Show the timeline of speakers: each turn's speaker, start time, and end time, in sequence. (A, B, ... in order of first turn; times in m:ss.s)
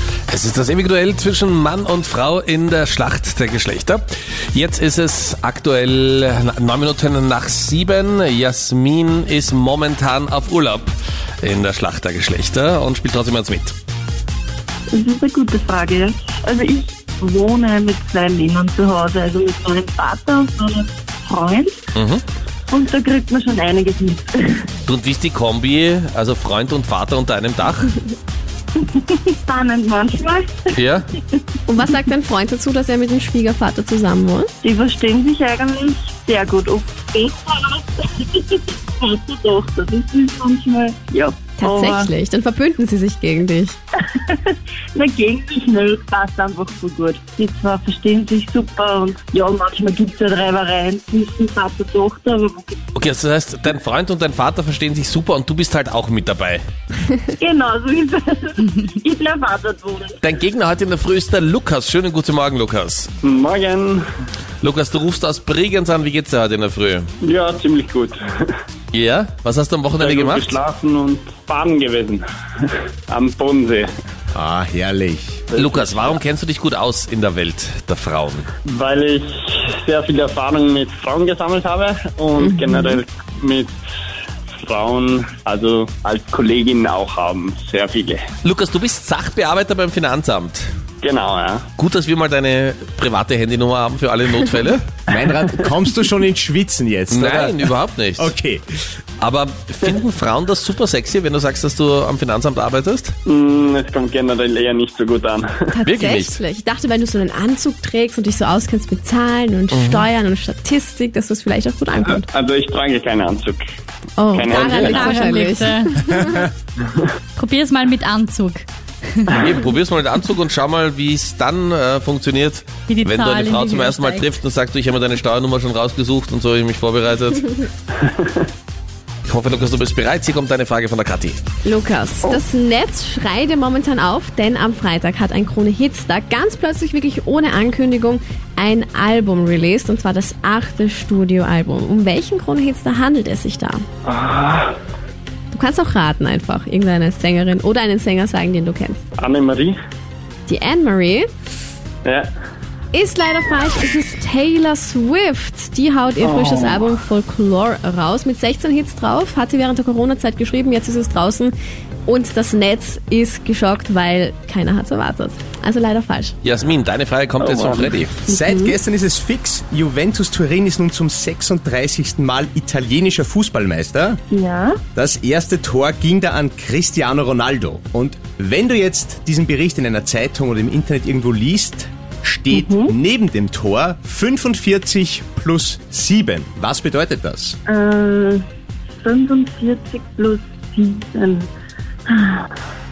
0:00.3-0:13.7 A
0:14.9-0:21.9 B
0:21.9-0:22.2 A
0:22.7-0:24.7 B
0:24.8-0:27.9 A
0:28.8-0:30.7 B
0:30.7-0:31.1 A
0:31.7-0:34.5 C
0:34.6-0:42.1 B
0:41.6-0:43.8 C
0:44.1-0:52.8 B
0:52.9-0:56.6 A
0:57.4-1:00.2 B
1:00.2-1:03.1 A
1:03.2-1:04.0 D
1:04.6-1:07.1 A
1:07.2-1:08.5 D
1:08.9-1:10.6 A
1:10.0-1:13.9 D
1:14.3-1:15.4 E
1:15.5-1:16.2 D
1:15.6-1:18.5 A
1:18.6-1:23.7 D
1:22.4-1:23.0 C
1:24.5-1:28.2 D
1:28.4-1:30.7 A
1:31.0-1:31.6 D
1:31.8-1:34.8 A
1:35.1-1:38.6 E
1:37.1-1:38.3 A
1:39.2-1:43.1 A
1:43.2-1:45.5 D
1:45.7-1:52.3 C
1:45.8-1:46.4 A
1:49.7-1:50.1 A
1:52.2-1:53.6 D
1:54.2-1:56.5 C
1:54.3-1:54.9 D
1:54.5-1:55.9 F
1:57.3-1:59.4 F
1:59.4-2:07.5 A
2:02.9-2:04.3 F
2:08.0-2:08.4 D
2:09.3-2:11.4 A
2:11.6-2:23.8 C
2:24.1-2:24.7 D
2:25.5-2:29.0 C
2:29.2-2:29.7 D
2:30.5-2:31.3 C
2:32.0-2:32.3 D
2:32.9-2:41.5 C
2:36.2-2:36.8 D
2:42.0-2:46.3 C
2:46.4-2:48.2 A
2:47.4-2:47.7 D
2:48.3-2:54.2 E
2:48.3-2:48.7 B
2:54.3-2:54.8 B
2:54.9-3:07.6 E
3:02.5-3:02.9 B
3:07.7-3:08.4 B
3:09.0-3:11.5 B
3:12.1-3:12.5 B